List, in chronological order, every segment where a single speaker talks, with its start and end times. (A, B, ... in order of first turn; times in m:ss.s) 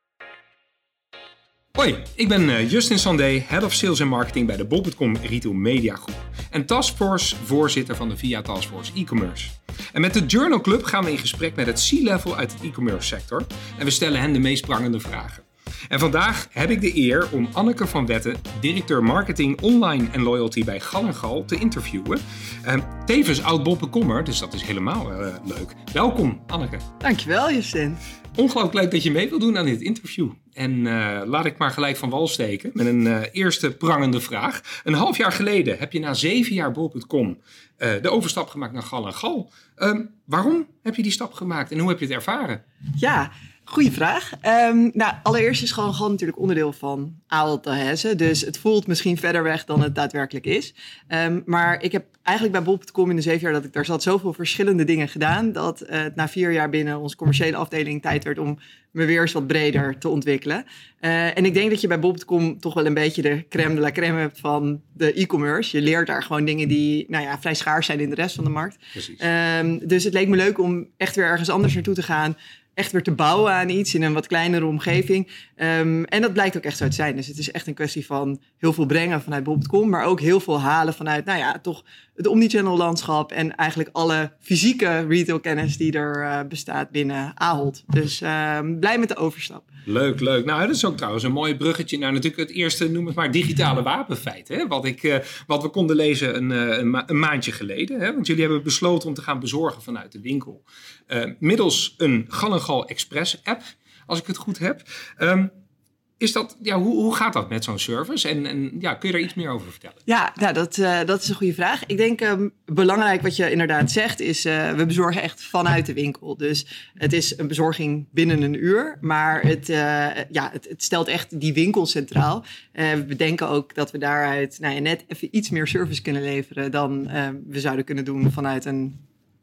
0:01.8-0:26.8 A
0:27.0-0:28.0 B
0:28.4-0:42.6 A
0:43.0-1:29.7 B
1:29.9-1:45.5 A
1:46.2-1:50.0 A
1:50.1-2:09.0 B